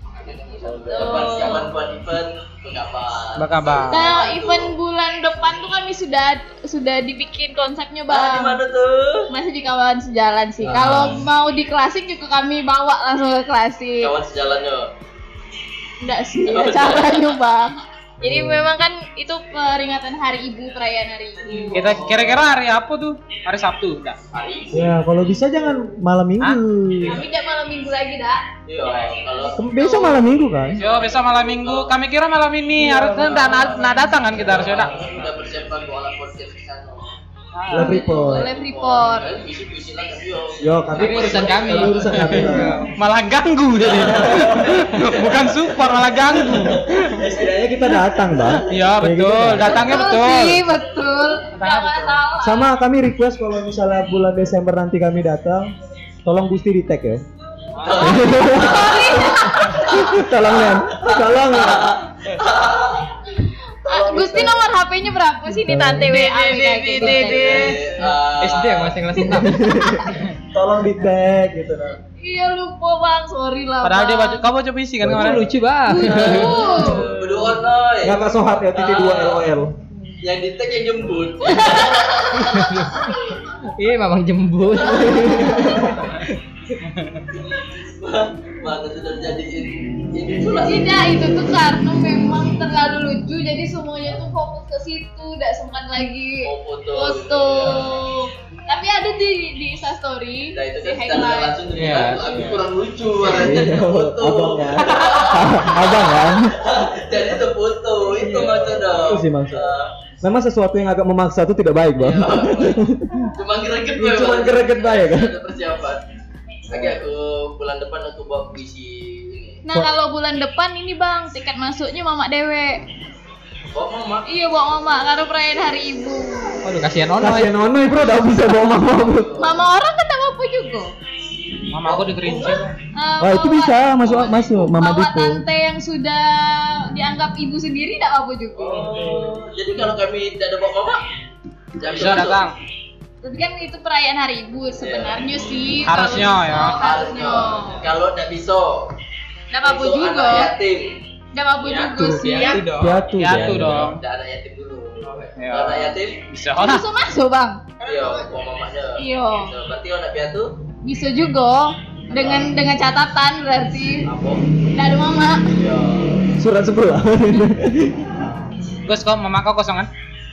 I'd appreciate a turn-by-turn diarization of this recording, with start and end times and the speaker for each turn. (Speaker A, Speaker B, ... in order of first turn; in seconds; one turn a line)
Speaker A: 0.2-4.8
Speaker B: 0.6-1.6
Speaker C: 0.6-1.7
Speaker D: 3.4-4.2
Speaker C: 3.9-8.6
Speaker A: 8.1-9.3
Speaker C: 9.3-14.1
Speaker B: 10.6-11.2
Speaker D: 10.7-11.1
Speaker A: 14.0-14.9
Speaker C: 16.0-22.0
Speaker A: 16.4-17.3
Speaker B: 18.2-18.7
Speaker A: 21.4-22.5
Speaker D: 21.7-24.2
Speaker A: 24.3-25.0
Speaker B: 24.7-27.2
Speaker C: 27.1-28.4
Speaker A: 28.7-29.6
Speaker B: 29.6-30.8
Speaker C: 29.8-30.3
Speaker A: 30.6-31.9
Speaker D: 30.8-35.1
Speaker B: 32.8-33.6
Speaker A: 33.0-37.2
Speaker B: 34.6-35.3
Speaker D: 37.5-38.0
Speaker B: 37.7-38.5
Speaker A: 37.7-42.5
Speaker C: 38.0-39.4
Speaker B: 40.6-42.9
Speaker E: 40.9-42.5
Speaker D: 42.0-47.2
Speaker A: 43.8-48.8
Speaker B: 43.9-45.1
Speaker B: 47.1-49.9
Speaker D: 48.7-50.6
Speaker C: 49.6-52.7
Speaker D: 51.6-52.2
Speaker B: 52.4-55.7
Speaker B: 56.2-57.3
Speaker D: 57.8-58.4
Speaker A: 57.8-63.1
Speaker B: 58.0-59.2
Speaker C: 58.3-60.2
Speaker B: 59.9-62.0
Speaker C: 63.5-67.8
Speaker B: 63.9-64.7
Speaker B: 65.5-66.1
Speaker E: 66.0-69.8
Speaker A: 67.0-69.1
Speaker B: 69.4-72.0
Speaker C: 69.7-70.3
Speaker C: 72.2-74.4
Speaker D: 73.8-75.5
Speaker B: 75.0-75.5
Speaker E: 75.2-76.5
Speaker C: 75.9-77.1
Speaker A: 76.1-79.5
Speaker B: 76.1-77.3
Speaker B: 78.0-79.7
Speaker A: 80.2-83.1
Speaker C: 81.4-83.5
Speaker E: 82.5-83.0
Speaker E: 83.7-85.7
Speaker C: 84.8-86.1
Speaker B: 84.9-86.0
Speaker A: 87.3-91.1
Speaker C: 90.6-102.6
Speaker A: 96.4-97.8
Speaker A: 100.5-109.9
Speaker E: 101.7-102.6
Speaker B: 103.2-106.7
Speaker C: 105.1-105.5
Speaker B: 108.1-113.3
Speaker A: 112.0-116.0
Speaker B: 114.0-115.3
Speaker A: 116.7-119.6
Speaker B: 116.7-117.0
Speaker C: 119.7-122.8
Speaker A: 123.7-124.3
Speaker C: 124.3-126.7
Speaker E: 126.6-127.7
Speaker B: 127.2-129.3
Speaker A: 128.3-129.6
Speaker C: 129.4-130.9
Speaker D: 131.7-132.7
Speaker A: 131.8-132.6
Speaker C: 132.9-138.9
Speaker B: 133.2-135.4
Speaker A: 138.6-141.1
Speaker B: 138.7-139.4
Speaker A: 141.8-142.4
Speaker D: 141.8-142.6
Speaker C: 143.2-147.9
Speaker A: 144.8-145.3
Speaker D: 145.9-146.8
Speaker A: 146.5-148.9
Speaker C: 149.5-150.5
Speaker A: 149.6-151.0
Speaker C: 151.3-152.7
Speaker A: 151.6-152.8
Speaker B: 152.0-153.9
Speaker E: 152.2-153.1
Speaker D: 153.2-154.0
Speaker A: 153.3-156.2
Speaker D: 155.3-156.8
Speaker C: 156.5-157.7
Speaker A: 157.8-160.6
Speaker C: 159.0-159.5
Speaker C: 160.8-164.1
Speaker A: 162.1-162.5
Speaker A: 164.1-164.4
Speaker C: 164.7-165.5
Speaker A: 165.5-166.3
Speaker B: 166.4-168.2
Speaker D: 168.8-169.9